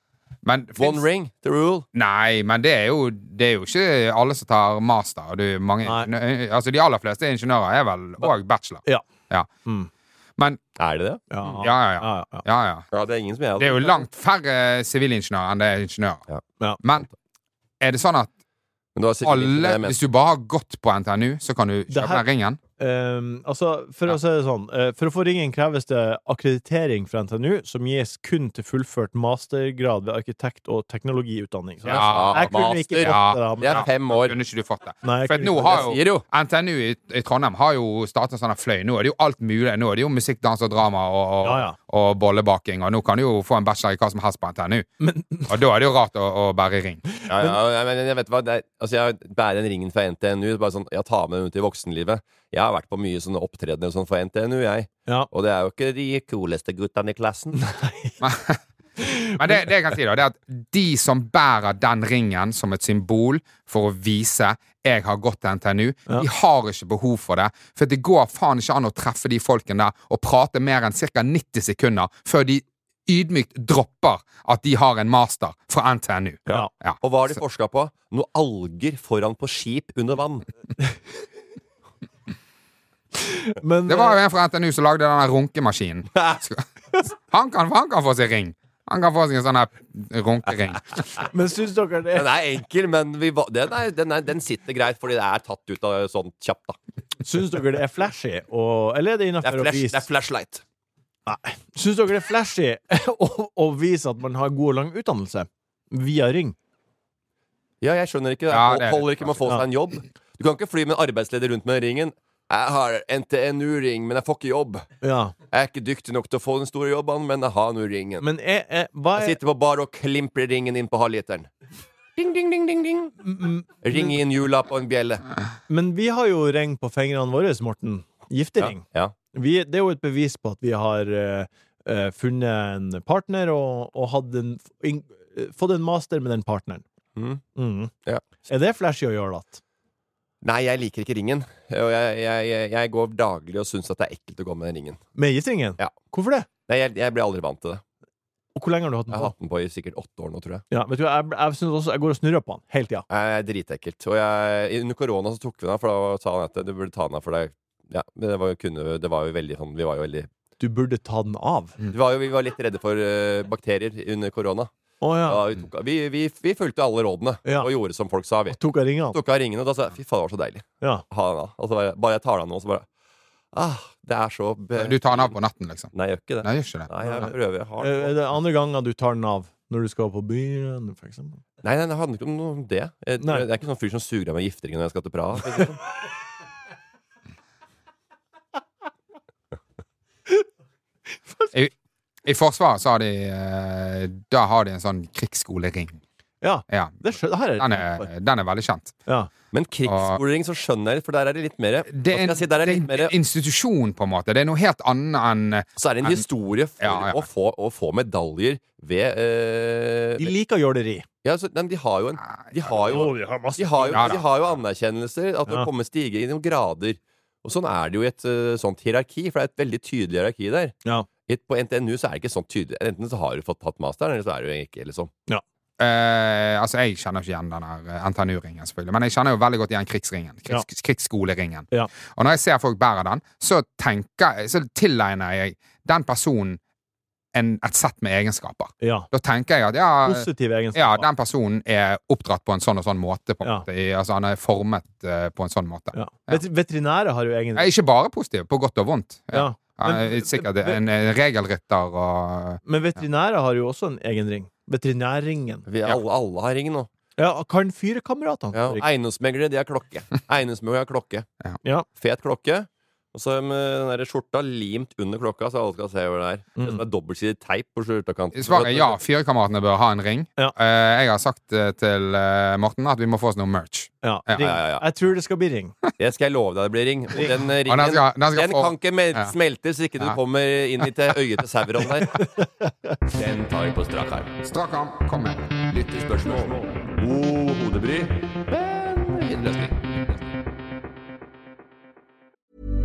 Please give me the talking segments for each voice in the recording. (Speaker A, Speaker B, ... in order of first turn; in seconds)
Speaker A: 0.4-1.0, 1.9-9.5, 11.6-12.8, 13.6-16.2, 16.8-17.1, 17.8-18.3, 19.2-22.6, 31.9-44.9, 45.5-47.0, 58.2-58.6, 59.2-77.0, 83.9-91.0, 108.5-109.4, 174.8-175.9, 176.4-176.9, 192.2-196.0, 196.7-198.9, 199.8-200.2, 201.9-206.2, 206.8-207.2, 212.4-213.0, 213.9-214.2, 225.8-236.6, 237.3-246.4, 247.5-252.6, 268.3-274.4, 277.6-279.3, 284.4-285.5
Speaker B: 0.8-1.9, 10.8-11.6, 12.9-14.0, 18.9-20.0, 31.9-34.4, 35.7-36.2, 47.3-57.7, 76.5-80.5, 92.1-96.8, 99.4-100.6, 107.8-114.9, 115.5-118.2, 119.2-121.5, 122.2-123.2, 123.8-125.2, 128.6-129.1, 137.2-137.4, 140.4-145.0, 146.7-147.8, 149.1-150.6, 153.1-160.3, 161.9-164.7, 165.2-168.6, 169.1-172.8, 173.5-175.3, 175.9-178.3, 181.6-185.8, 199.5-203.1, 205.8-210.3, 211.2-220.7, 221.2-225.1, 255.7-256.9, 258.5-261.3, 262.0-269.0, 274.4-274.8, 276.0-282.2, 283.1-284.3, 285.7-290.2
Speaker C: 11.3-12.4, 21.9-22.2, 22.8-33.8, 35.0-35.9, 41.4-41.8, 45.0-45.5, 57.6-58.1, 59.0-59.6, 83.2-84.2, 91.3-92.2, 97.2-100.0, 101.3-106.5, 115.0-115.3, 118.2-119.4, 123.2-124.2, 125.7-128.8, 129.3-136.8, 137.6-137.9, 138.4-139.6, 145.2-146.5, 148.5-149.3, 150.7-153.1, 160.6-161.8, 165.0-165.4, 168.5-169.2, 177.1-181.4, 183.2-183.4, 196.4-198.1, 210.2-211.0, 212.9-214.1, 238.8-239.1, 240.0-241.1, 245.9-247.7, 249.3-250.8, 252.6-255.7, 257.2-258.8, 266.6-266.8, 274.0-275.7, 282.1-283.0